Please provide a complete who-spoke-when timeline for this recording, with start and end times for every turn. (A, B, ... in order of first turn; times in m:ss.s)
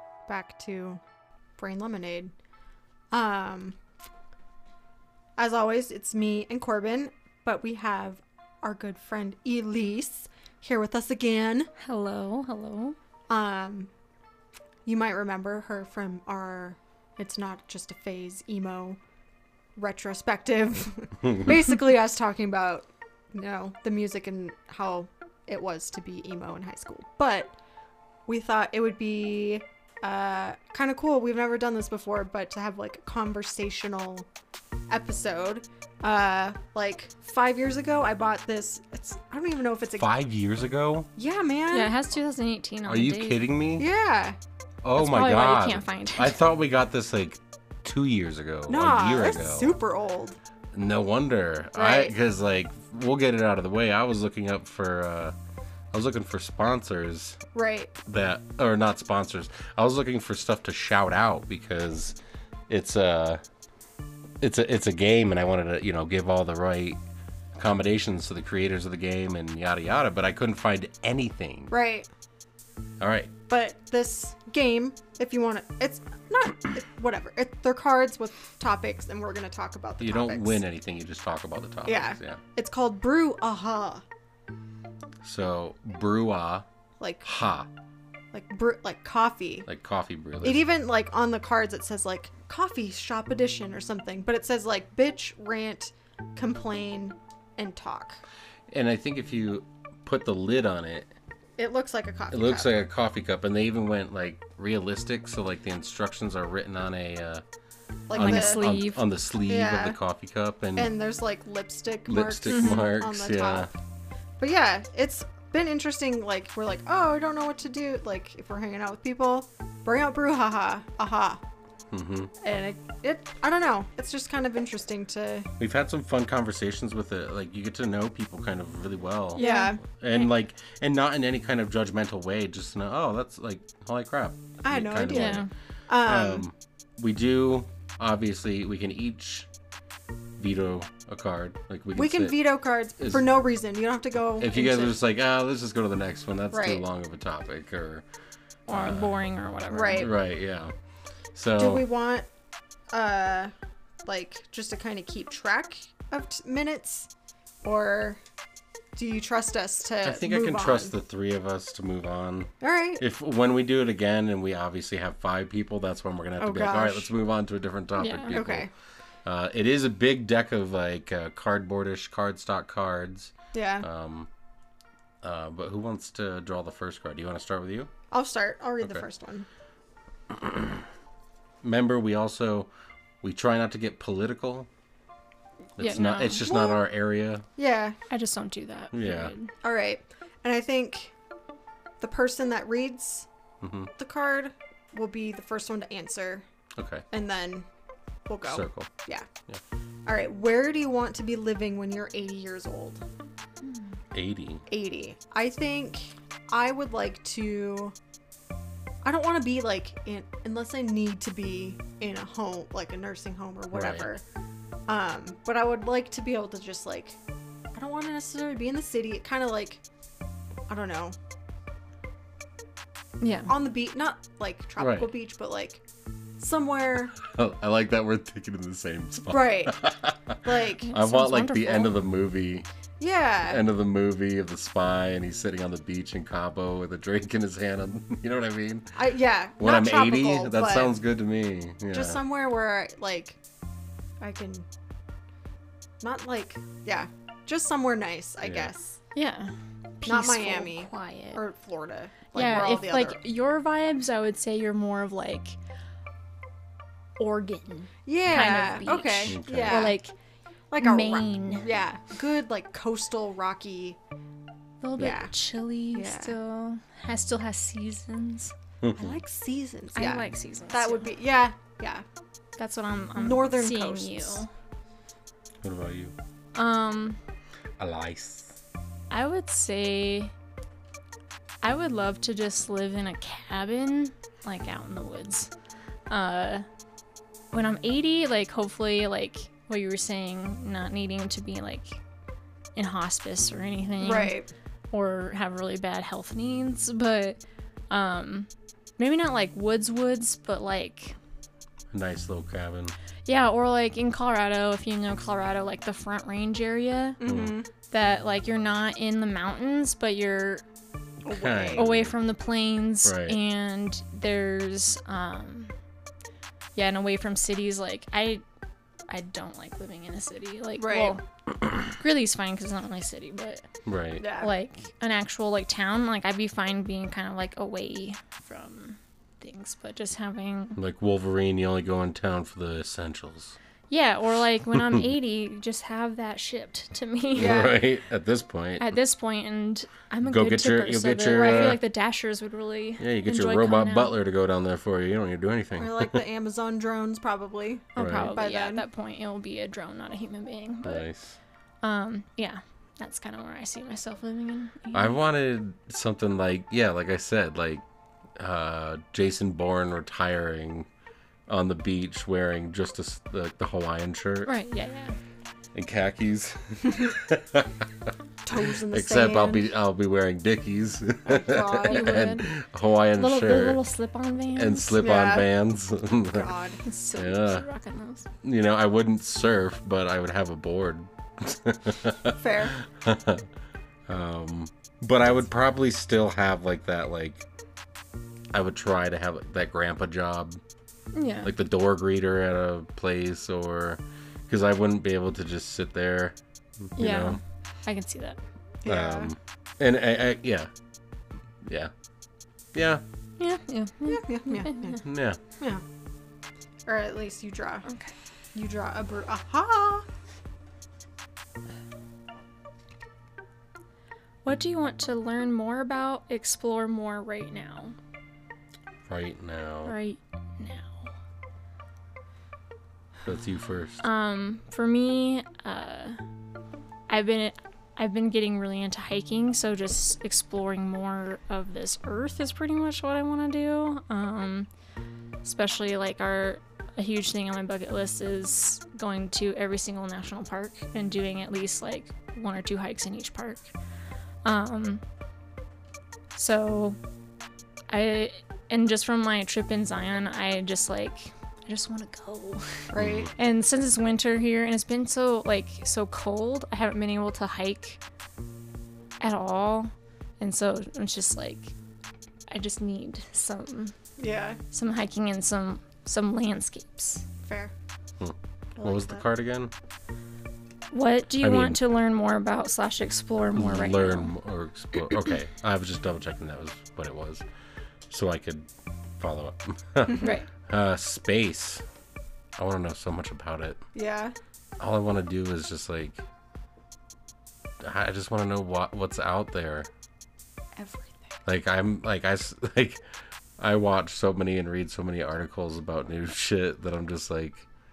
0:00.3-0:01.0 A
0:01.6-0:02.3 A
0:03.1-0:03.8 A
0:05.4-0:11.7 A
0:11.8-0:13.0 B
0:13.3-0:13.9 A
0:14.8-0:19.0 A
0:19.8-0:27.5 A
0:28.3-0:34.3 A
0:34.9-0:40.1 A
0:40.0-0:41.1 C
0:41.2-0:41.9 A
0:41.7-0:43.4 B
0:42.8-0:43.9 C
0:43.8-0:44.4 A
0:44.8-0:49.7 C
0:45.0-0:46.4 B
0:48.7-0:50.4 A
0:50.7-0:55.3 C
0:51.8-0:52.1 A
0:55.9-0:57.4 C
0:57.5-0:57.9 A
0:58.0-1:02.2 C
1:02.7-1:03.4 C
1:04.4-1:07.0 C
1:07.6-1:11.7 C
1:11.7-1:12.1 A
1:13.0-1:13.3 C
1:13.5-1:20.6 A
1:20.0-1:22.4 C
1:21.8-1:24.0 A
1:25.2-1:26.6 C
1:27.0-1:27.3 A
1:27.2-1:27.7 C
1:28.3-1:29.7 A
1:29.6-1:30.6 C
1:30.4-1:38.2 A
1:38.7-1:41.1 C
1:41.6-1:42.7 A
1:42.3-1:47.4 C
1:48.1-1:48.8 A
1:48.1-1:50.9 C
1:48.1-1:49.0 B
1:49.4-1:50.0 A
1:50.8-1:53.8 A
1:52.1-1:53.7 C
1:52.5-1:52.8 B
1:54.4-2:01.4 A
2:01.9-2:02.3 C
2:02.4-2:05.5 A
2:05.6-2:15.4 C
2:09.4-2:09.8 A
2:09.4-2:10.3 B
2:14.6-2:16.4 A
2:15.1-2:15.5 B
2:16.0-2:19.5 C
2:20.4-2:22.4 C
2:21.9-2:25.0 A
2:23.0-2:23.3 C
2:24.4-2:28.0 C
2:26.5-2:26.8 A
2:28.7-2:30.1 B
2:28.7-2:29.1 C
2:29.7-2:30.1 A
2:29.9-2:30.7 C
2:31.3-2:31.8 C
2:31.6-2:32.3 A
2:32.9-2:33.5 A
2:34.0-2:37.1 A
2:37.6-2:38.2 A
2:39.0-2:40.9 A
2:40.0-2:48.7 C
2:42.6-2:43.0 A
2:46.4-2:47.1 A
2:48.0-2:48.4 B
2:48.3-2:48.7 A
2:49.2-2:54.3 C
2:53.5-2:53.8 A
2:55.2-2:57.9 C
2:58.1-2:59.4 A
3:00.3-3:00.8 C
3:01.6-3:02.7 C
3:03.2-3:04.7 C
3:05.8-3:06.4 B
3:05.8-3:07.4 C
3:06.4-3:06.8 A
3:07.6-3:08.0 A
3:08.1-3:09.5 B
3:08.9-3:09.3 C
3:09.6-3:11.1 A
3:12.0-3:13.3 A
3:13.6-3:13.9 C
3:14.0-3:16.4 A
3:16.8-3:17.0 C
3:17.1-3:17.6 A
3:18.3-3:19.3 A
3:18.4-3:18.9 C
3:20.0-3:23.0 A
3:23.6-3:24.0 B
3:24.1-3:24.6 C
3:24.7-3:27.9 A
3:29.0-3:34.2 A
3:33.7-3:34.1 C
3:34.9-3:37.2 A
3:37.7-3:39.8 A
3:40.7-3:41.2 A
3:43.2-3:43.5 B
3:43.5-3:45.8 A
3:44.8-3:45.1 C
3:46.4-3:47.1 A
3:47.2-3:52.7 C
3:49.3-3:49.8 A
3:50.4-3:50.9 A
3:50.8-3:51.9 B
3:53.0-3:53.6 A
3:53.4-3:59.0 C
3:58.9-4:00.9 A
3:59.6-4:02.2 C
4:01.9-4:03.4 A
4:04.2-4:04.6 A
4:06.0-4:09.0 A
4:08.4-4:08.7 C
4:09.1-4:11.4 B
4:10.0-4:13.2 A
4:12.3-4:15.6 B
4:17.2-4:20.1 B
4:18.0-4:20.0 A
4:19.3-4:19.9 C
4:20.7-4:24.0 A
4:20.8-4:21.7 B
4:24.8-4:28.5 B
4:25.0-4:25.3 A
4:25.9-4:26.4 A
4:28.8-4:29.2 C
4:28.9-4:32.0 A
4:29.9-4:31.1 B
4:32.6-4:34.5 B
4:33.2-4:34.4 A
4:35.6-4:36.1 C
4:36.5-4:37.2 B
4:37.8-4:38.6 C
4:39.1-4:40.3 B
4:41.6-4:45.5 B
4:46.1-4:46.6 B
4:47.5-4:52.0 B
4:52.8-4:54.3 B
4:54.0-4:54.5 A
4:54.9-5:01.2 B
5:01.9-5:02.9 C
5:03.2-5:07.2 B
5:07.2-5:07.7 A
5:07.2-5:07.6 C
5:07.9-5:10.6 B
5:11.2-5:11.8 A
5:11.3-5:12.1 C
5:11.7-5:15.7 B
5:13.0-5:13.4 C
5:16.7-5:18.4 B
5:19.1-5:21.2 B
5:20.8-5:21.2 A
5:22.0-5:23.6 B
5:23.8-5:24.2 C
5:24.2-5:24.5 A
5:24.3-5:30.8 B
5:30.8-5:33.6 C
5:33.9-5:37.7 B
5:34.7-5:35.0 C
5:37.3-5:37.8 A
5:37.3-5:39.0 C
5:38.8-5:44.2 B
5:40.2-5:41.8 C
5:41.3-5:41.8 A
5:43.0-5:46.2 C
5:45.8-5:48.8 A
5:47.9-5:51.0 B
5:48.0-5:48.3 C
5:50.8-5:51.4 C
5:51.8-5:55.2 B
5:54.9-5:57.8 C
5:58.4-6:00.9 C
6:01.5-6:04.5 C
6:04.4-6:05.2 B
6:05.7-6:13.8 C
6:08.4-6:09.7 A
6:11.2-6:12.2 A
6:11.9-6:12.5 B
6:13.1-6:15.0 B
6:14.5-6:16.5 C
6:15.0-6:15.5 A
6:16.2-6:16.8 A
6:16.8-6:18.3 B
6:17.2-6:17.6 C
6:18.4-6:23.5 C
6:22.4-6:22.8 A
6:24.1-6:27.4 C
6:28.5-6:30.6 C
6:31.1-6:31.5 B
6:31.4-6:36.4 C
6:37.0-6:37.4 C
6:37.0-6:38.4 B
6:38.8-6:39.3 A
6:38.8-6:40.7 C
6:41.6-6:41.9 C
6:42.7-6:43.0 C
6:43.4-6:45.0 B
6:44.1-6:45.0 A
6:45.0-6:45.4 C
6:45.6-6:45.8 A
6:46.9-6:47.8 A
6:47.8-6:48.1 B
6:48.5-6:50.0 A
6:54.4-6:58.0 B
6:59.0-7:00.0 C
6:59.8-7:01.1 B
7:03.2-7:04.0 C
7:04.0-7:06.2 B
7:07.1-7:14.7 B
7:15.4-7:23.7 B
7:24.4-7:25.0 B
7:26.3-7:27.0 B
7:27.9-7:38.0 B
7:32.9-7:33.3 A
7:33.0-7:33.3 C
7:39.2-7:41.7 B
7:42.5-7:43.9 B
7:44.2-7:44.6 A
7:44.7-7:47.2 B
7:47.4-7:47.7 A
7:48.2-7:49.7 C
7:48.8-7:49.2 A
7:50.9-7:54.3 B
7:51.4-7:51.8 C
7:53.5-7:57.4 C
7:58.1-7:58.7 C
7:59.2-8:01.8 C
8:00.2-8:00.5 B
8:02.6-8:03.8 C
8:03.9-8:04.3 A
8:04.8-8:06.2 C
8:07.8-8:09.9 C
8:10.8-8:11.3 A
8:11.4-8:13.0 C
8:13.6-8:17.6 C